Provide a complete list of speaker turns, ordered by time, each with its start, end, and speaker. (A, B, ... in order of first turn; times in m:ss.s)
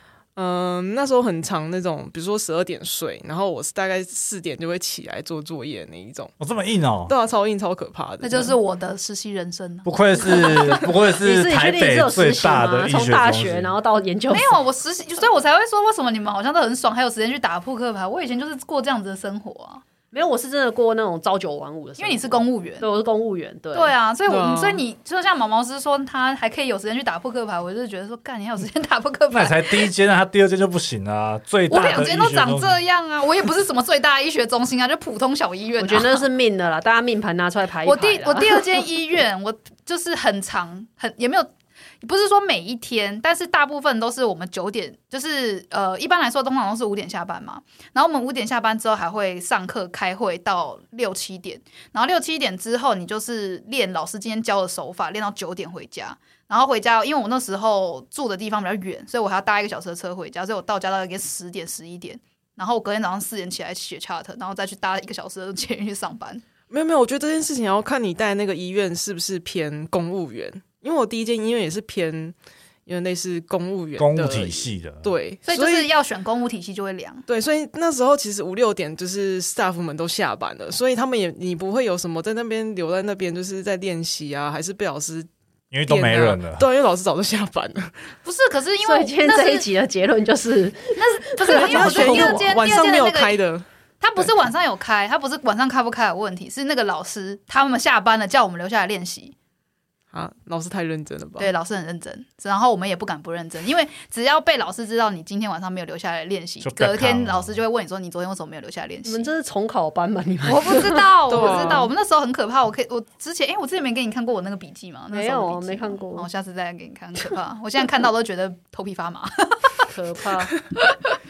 0:00.4-0:06.3 A
0:06.4-0:07.1 B
0:07.1-0:08.5 A
0:08.2-0:10.8 C
0:09.8-0:13.7 B
0:11.2-0:14.6 D
0:14.3-0:19.8 C
0:20.1-0:23.9 D
0:22.0-0:22.8 C
0:23.7-0:29.9 C
0:24.3-0:24.8 A
0:29.3-0:32.8 B
0:31.7-0:36.2 C
0:35.8-0:38.6 D
0:37.8-0:41.5 C
0:42.0-1:06.4 C
1:06.7-1:12.3 A
1:12.8-1:15.9 A
1:14.0-1:15.1 B
1:15.4-1:17.2 C
1:17.3-1:25.3 A
1:25.7-1:26.6 B
1:25.9-1:27.9 A
1:28.2-1:29.7 C
1:28.8-1:32.6 D
1:31.0-1:33.4 C
1:31.5-1:33.6 A
1:34.0-1:39.3 C
1:40.1-1:41.5 A
1:41.4-1:49.3 C
1:46.6-1:47.6 B
1:49.0-1:51.6 D
1:50.4-1:59.9 C
1:51.3-1:51.9 A
1:55.1-1:56.3 D
1:59.9-2:00.5 D
2:00.7-2:01.2 C